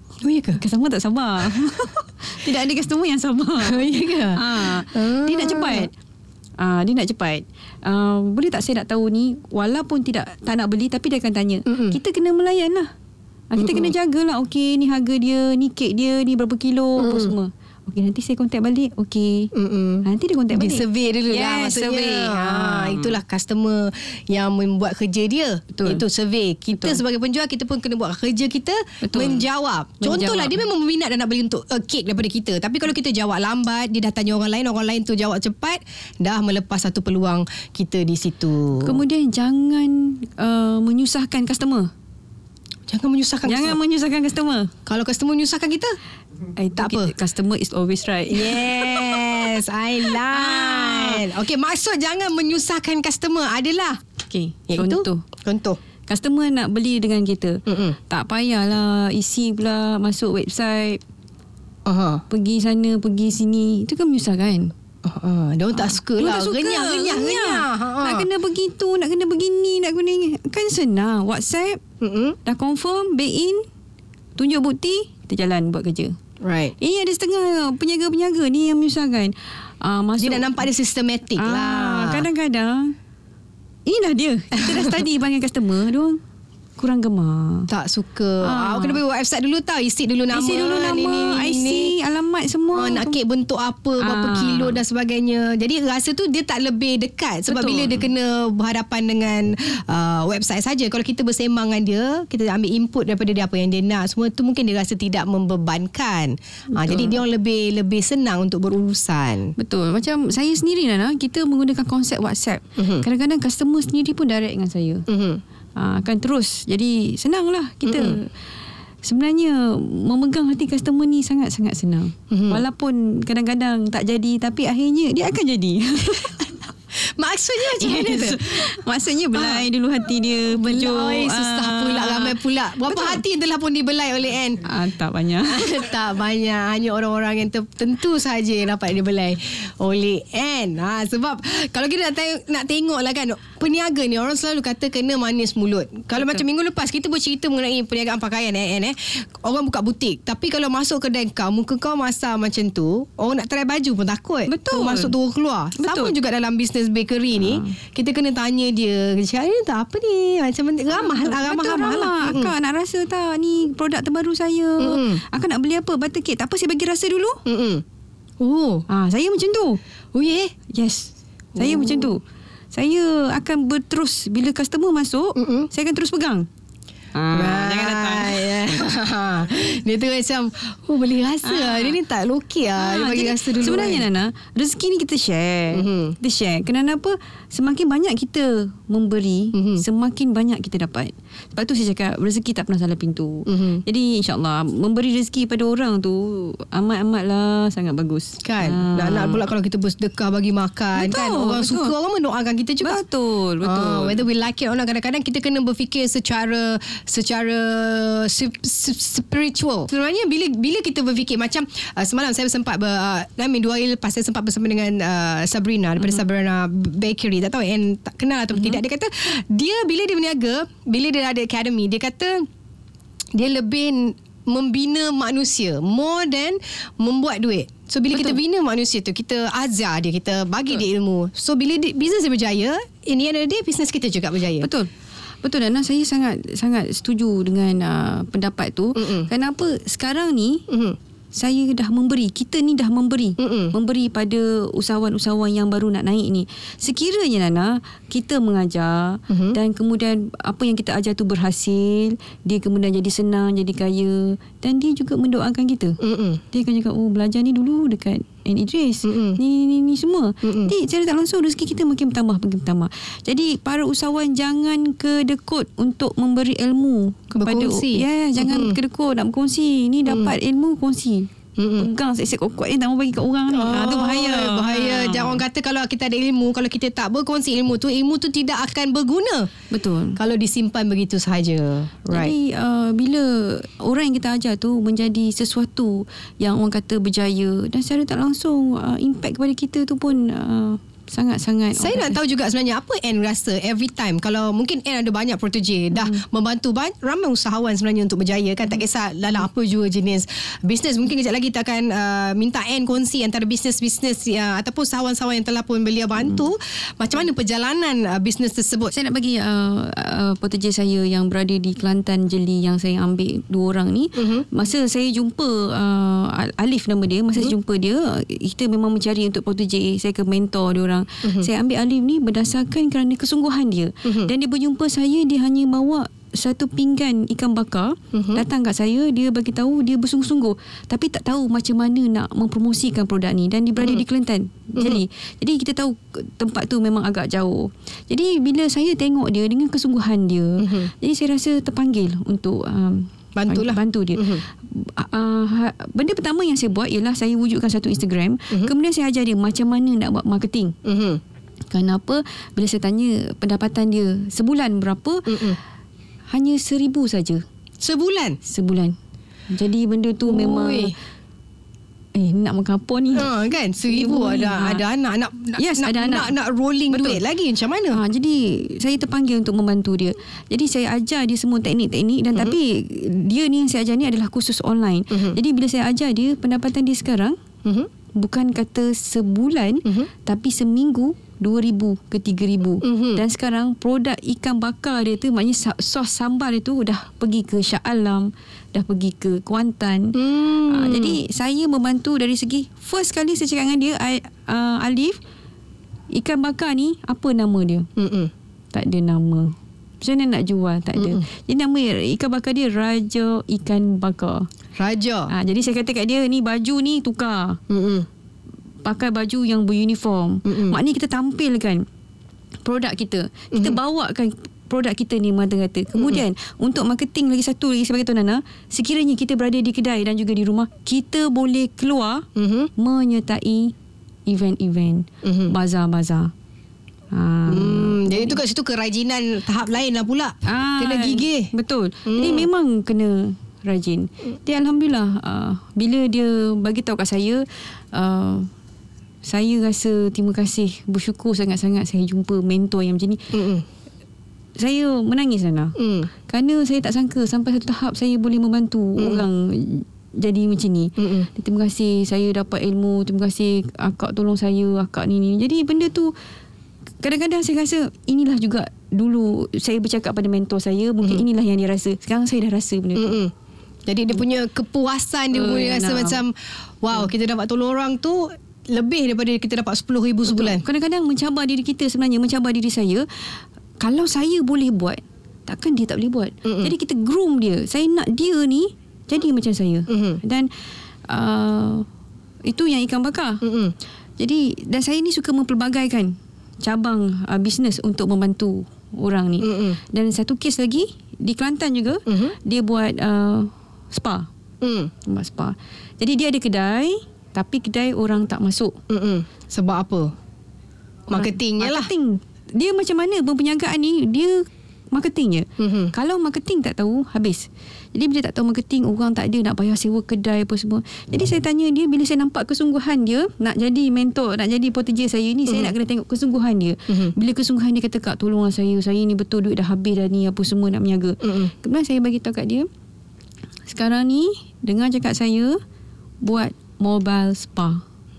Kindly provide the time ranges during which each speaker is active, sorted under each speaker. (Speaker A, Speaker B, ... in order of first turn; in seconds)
Speaker A: 0.2-0.6, 3.6-5.9, 11.7-12.0, 13.6-13.9, 17.0-17.3, 19.6-39.0, 42.9-43.8, 44.9-45.9, 46.8-47.1, 48.3-54.0, 54.7-55.8, 57.7-58.0, 61.9-62.2, 65.0-68.3, 72.0-72.4, 76.4-76.7, 80.2-82.3, 84.7-85.0, 87.7-91.9, 92.7-109.5, 112.8-113.0, 115.1-115.4, 117.9-118.2, 122.3-122.6, 127.1-128.8, 129.3-129.7, 130.5-134.6, 135.4-162.5, 164.8-165.2, 167.5-167.8, 168.4-168.9, 170.2-170.5, 171.6-172.1, 175.4-175.7, 177.3-184.1, 185.7-186.2, 189.5-189.8, 193.5-193.8, 198.4-203.0, 203.6-222.5, 223.3-234.7, 239.0-239.3, 240.7-241.0, 243.4-243.7, 249.3-249.6, 256.0-256.4, 259.1-259.4, 260.4-260.7, 267.4-268.8, 270.1-270.3, 271.6-271.9, 273.5-279.5, 280.2-282.3, 291.8-308.9, 314.2-314.5, 321.2-321.5, 324.1-324.3, 328.1-328.4, 334.8-335.0, 340.6-340.9, 343.4-344.4, 350.9-351.2, 355.3-355.6, 357.8-358.4, 360.3-360.9, 363.1-368.0, 375.1-375.4, 379.9-380.1, 382.8-383.2, 390.1-391.2, 398.0-398.3, 401.0-401.2, 404.8-405.3, 407.7-408.1, 410.5-410.8, 413.5-413.8, 415.9-416.2, 422.4-422.7, 425.2-425.5, 427.5-431.5, 432.1-432.5, 443.3-443.6, 445.8-446.1, 449.0-449.2, 451.0-451.3, 462.9-463.3, 463.9-470.6, 476.4-476.7, 479.9-480.2, 483.4-483.7, 489.4-489.8, 492.1-492.4, 494.6-494.9, 498.9-500.1, 501.1-501.9, 505.6-505.9, 515.5-515.7, 516.9-517.1, 521.2-521.5
Speaker B: 0.6-5.9, 6.6-12.9, 13.5-19.5, 20.1-23.2, 25.7-26.0, 26.8-27.0, 29.0-29.5, 30.0-30.6, 38.8-41.9, 43.5-44.7, 46.6-49.5, 50.1-51.2, 54.3-55.2, 56.1-61.0, 62.3-64.7, 65.7-71.8, 72.5-73.7, 74.4-76.2, 76.8-80.7, 81.4-82.9, 83.9-86.2, 86.8-87.7, 88.4-89.0, 90.3-93.2, 94.0-94.8, 97.5-98.0, 106.8-107.2, 109.6-115.1, 115.8-118.3, 119.0-126.7, 127.6-133.2, 134.7-135.8, 154.5-155.1, 155.8-156.2, 157.4-157.8, 160.9-167.4, 168.9-169.8, 170.7-172.2, 172.7-176.5, 177.2-178.9, 181.4-182.0, 182.8-199.4, 200.9-201.9, 202.8-204.2, 228.1-228.4, 234.6-234.9, 235.4-240.6, 241.3-256.0, 256.5-275.4, 279.7-280.2, 282.1-292.2, 296.0-296.2, 308.9-350.8, 351.7-355.5, 356.3-357.4, 358.4-359.0, 359.5-360.9, 362.1-363.3, 363.9-364.8, 365.6-366.3, 366.9-367.2, 367.9-377.4, 378.2-395.2, 396.1-397.9, 398.7-404.5, 405.3-407.6, 408.8-411.9, 412.6-422.3, 422.8-423.7, 424.3-426.3, 427.1-428.4, 430.4-438.5, 439.2-443.4, 444.6-445.8, 446.3-456.1, 457.0-463.2, 465.3-466.2, 470.3-480.5, 481.1-481.9, 482.5-483.4, 484.2-494.3, 495.1-498.8, 501.1-522.7, 523.7-525.6, 526.2-527.8